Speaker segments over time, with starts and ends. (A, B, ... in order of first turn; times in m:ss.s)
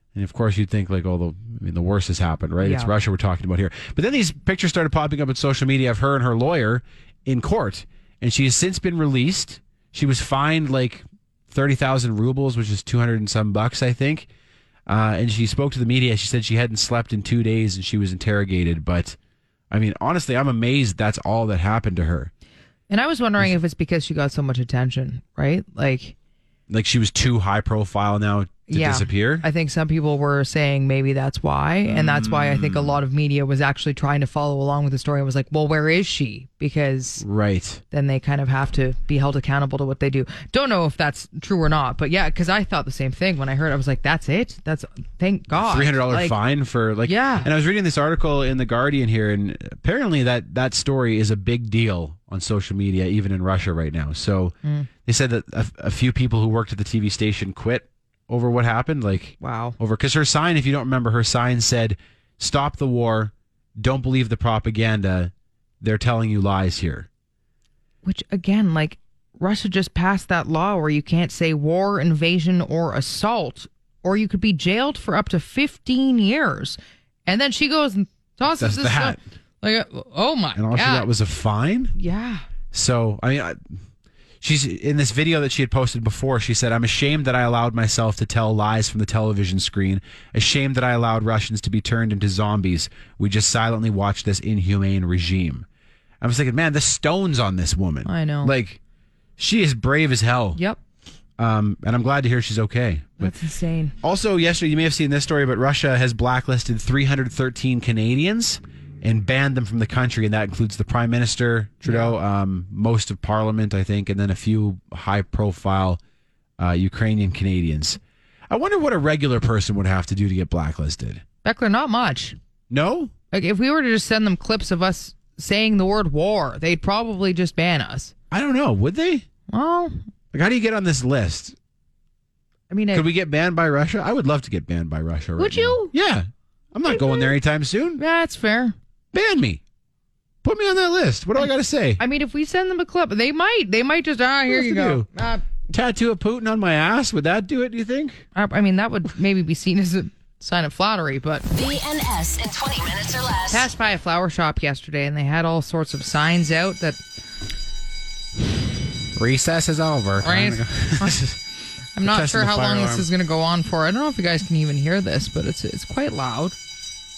0:00.1-0:14.3 A
0:02.6-0:02.9 B
0:14.9-0:19.2 A
0:19.7-0:22.3 A
0:22.9-0:26.2 B
0:26.7-0:29.4 A
0:28.7-0:37.2 B
0:31.9-0:33.0 A
0:37.2-0:37.8 A
0:37.9-0:46.4 B
0:45.5-1:07.1 A
0:47.1-0:47.5 B
0:59.4-0:59.8 B
1:08.0-1:21.1 B
1:18.6-1:19.2 A
1:20.6-1:22.0 A
1:22.0-1:22.4 B
1:22.7-1:23.7 A
1:24.4-1:35.7 A
1:36.2-1:38.8 A
1:38.0-1:38.5 B
1:39.4-1:40.6 A
1:41.4-1:43.3 A
1:43.2-1:43.9 B
1:44.0-1:56.0 A
1:51.8-1:52.2 B
1:56.6-2:01.2 A
2:01.4-2:02.4 B
2:02.7-2:03.1 A
2:03.3-2:08.1 B
2:08.3-2:09.2 A
2:09.5-2:09.9 B
2:10.3-2:11.6 A
2:12.7-2:13.1 B
2:12.9-2:18.0 A
2:15.4-2:15.9 B
2:18.0-2:18.8 B
2:19.1-2:19.6 A
2:20.4-2:22.0 A
2:22.0-2:25.4 B
2:24.5-2:25.1 A
2:25.7-2:28.3 A
2:28.4-2:31.5 B
2:31.5-2:33.7 C
2:33.5-2:37.0 B
2:39.2-2:41.4 A
2:40.2-2:41.2 B
2:42.0-2:46.6 B
2:42.0-2:43.1 A